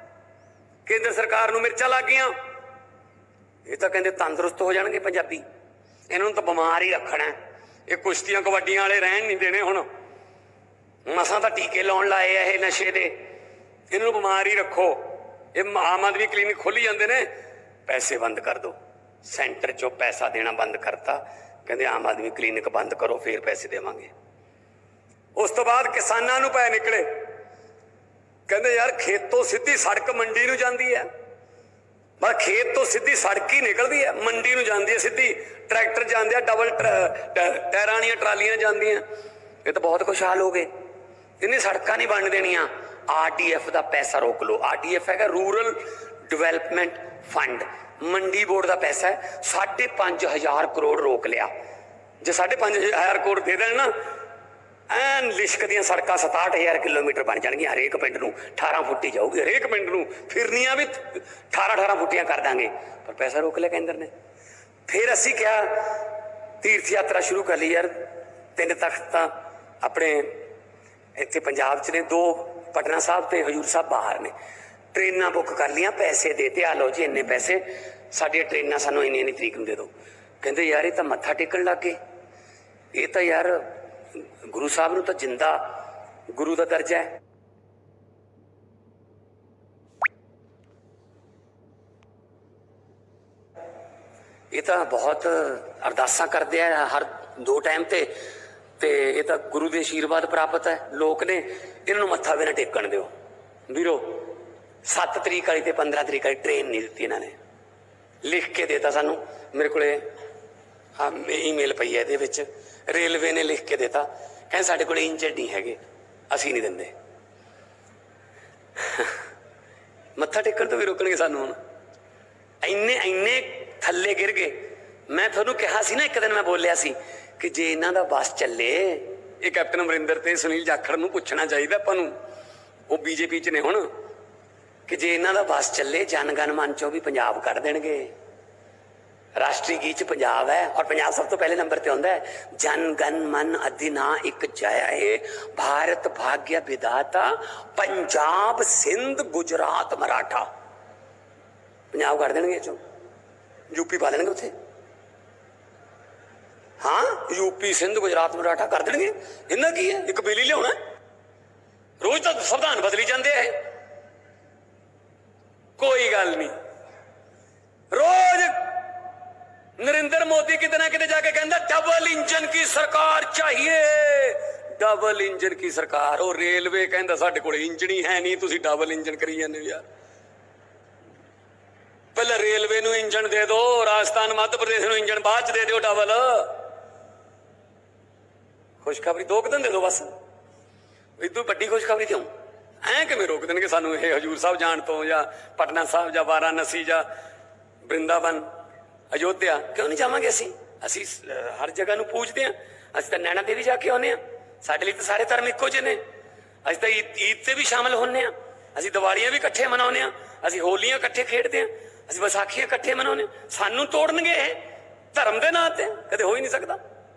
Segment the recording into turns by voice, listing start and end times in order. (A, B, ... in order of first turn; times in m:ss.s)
0:00.9-0:02.3 A
0:03.6-0:05.4 A
0:06.1-0:07.3 A
0:07.9-0:09.8 A
0:11.1-0:13.2 A
0:13.9-0:17.2 A
0:17.9-0:24.1 A
0:25.4-0:27.1 A
0:28.5-0:31.1 A
0:32.2-0:39.0 A
0:39.6-0:40.7 A
0:41.4-0:51.5 A
0:52.2-0:53.9 A
0:54.9-1:04.1 A
1:04.9-1:06.0 A
1:06.6-1:10.4 A
1:11.2-1:14.3 A
1:14.9-1:22.0 A
1:22.9-1:25.7 A
1:26.3-1:27.2 A
1:34.5-1:38.1 A
1:38.8-1:43.1 A
1:43.7-1:44.3 A
1:44.8-1:47.4 A
1:48.2-1:50.0 A
1:51.0-1:55.8 A
1:56.3-1:56.9 A
1:58.8-1:59.2 A
2:00.2-2:01.6 A
2:02.6-2:12.1 A
2:12.9-2:13.9 A
2:14.9-2:18.1 A
2:19.4-2:30.5 A
2:31.9-2:32.8 A
2:33.7-2:34.5 A
2:36.8-2:40.7 A
2:42.0-2:43.6 A
2:45.8-2:46.5 A
2:47.9-2:48.8 A
2:49.8-2:59.8 A
3:02.2-3:06.6 A
3:08.8-3:10.1 A
3:11.2-3:12.3 A
3:12.8-3:17.0 A
3:17.8-3:18.5 A
3:19.1-3:26.0 A
3:26.6-3:34.6 A
3:35.1-3:36.8 A